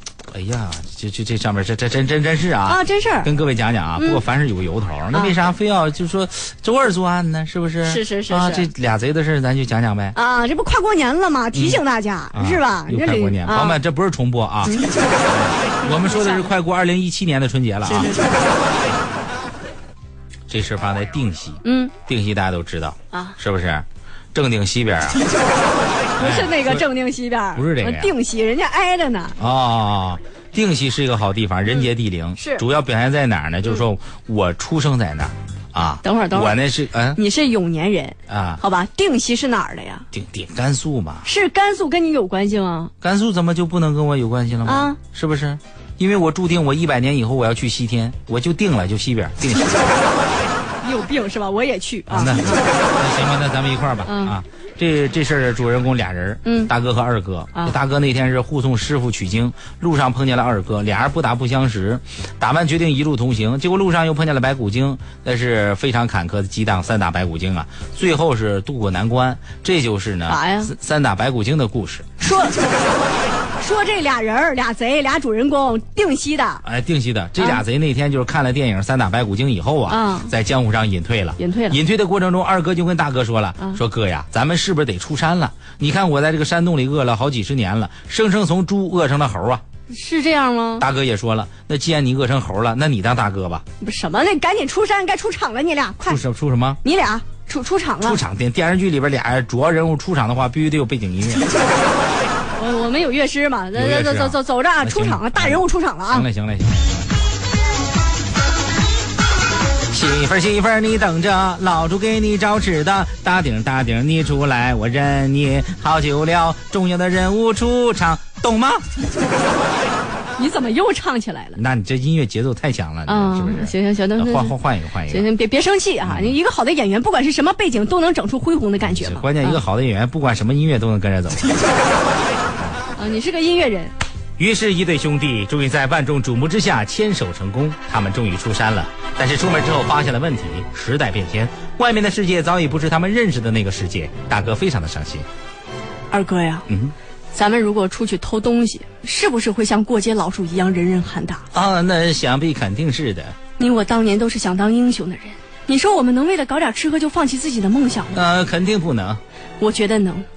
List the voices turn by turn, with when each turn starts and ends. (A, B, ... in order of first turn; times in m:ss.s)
0:00.3-0:10.2 A
0:02.6-0:03.3 B
0:04.0-0:04.2 B
0:07.8-0:08.7 B
0:10.1-0:13.8 B
0:11.5-0:11.8 A
0:12.3-0:18.1 A
0:14.6-0:15.0 B
0:15.8-0:16.5 B
0:17.8-0:18.4 B
0:20.5-0:25.2 A
0:21.6-0:21.9 B
0:23.1-0:23.4 B
0:26.1-0:29.4 B
0:26.2-0:26.9 A
0:27.5-0:28.1 A
0:29.4-0:37.2 A
0:31.7-0:32.6 B
0:36.0-0:36.6 B
0:37.1-0:40.0 B
0:38.3-0:38.6 A
0:40.1-0:41.3 A
0:41.2-0:42.9 B
0:43.0-0:50.0 A
0:44.6-0:45.0 B
0:50.8-0:52.7 B
0:52.1-1:12.0 A
0:54.0-0:54.4 B
0:56.4-0:56.7 B
1:10.3-1:10.7 B
1:12.2-1:12.6 B
1:13.6-1:16.6 B
1:16.6-1:29.6 A
1:17.4-1:17.6 B
1:19.9-1:20.3 B
1:21.4-1:21.8 B
1:29.9-1:30.8 B
1:30.8-1:33.6 A
1:33.8-1:36.2 B
1:36.0-1:36.8 A
1:36.8-1:38.2 B
1:38.0-1:41.4 A
1:42.5-1:46.2 B
1:43.7-1:47.1 A
1:49.9-1:58.8 A
2:00.4-2:01.6 B
2:01.6-2:05.3 A
2:03.1-2:04.6 B
2:05.1-2:09.6 B
2:06.0-2:06.4 A
2:08.8-2:11.6 A
2:12.9-2:13.9 B
2:14.4-2:25.2 A
2:26.1-2:26.7 B
2:26.7-2:26.9 A
2:27.3-2:31.4 B
2:31.5-2:33.4 A
2:33.6-2:38.2 B
2:38.1-2:39.2 A
2:39.6-2:40.2 B